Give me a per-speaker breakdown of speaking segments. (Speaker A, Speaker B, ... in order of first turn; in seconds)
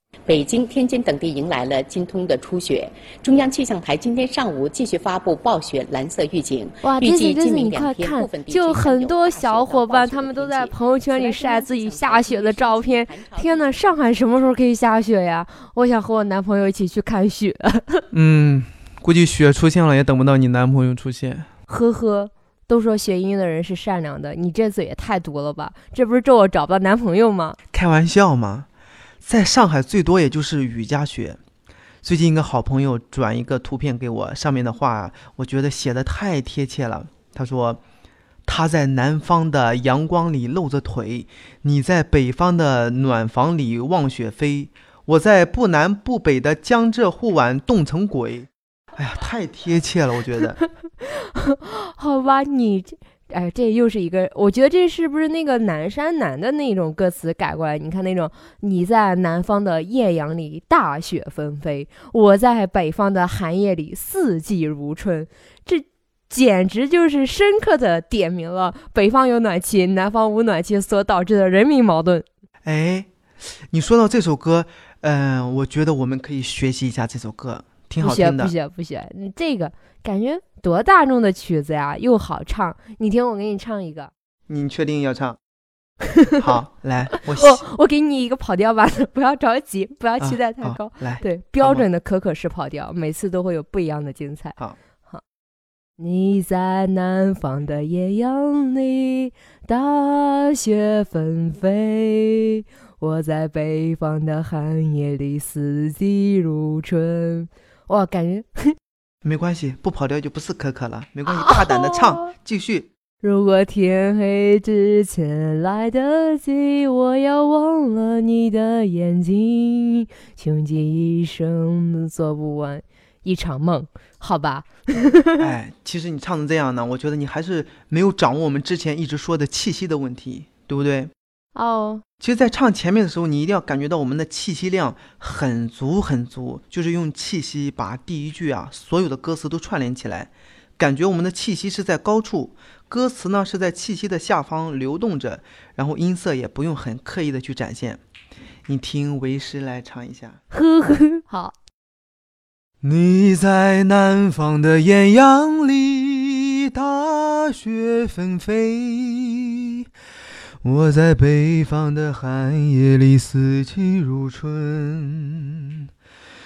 Speaker A: 0.3-14.0
Speaker B: 6.8-18.1, 21.7-27.6, 50.4-72.2, 78.0-84.1, 86.1-86.4, 87.3-95.2, 96.0-108.7, 111.2-112.3, 113.2-125.5, 131.5-132.0, 150.5-151.5
Speaker C: 18.1-21.5, 27.7-28.7, 29.2-31.4, 32.0-37.8, 38.5-50.5, 72.6-73.1, 73.7-78.5, 84.5-85.4, 86.4-87.6, 90.2-91.8, 109.2-112.9, 125.4-131.1, 132.2-148.0, 148.7-150.4, 152.8-159.8, 160.6-165.9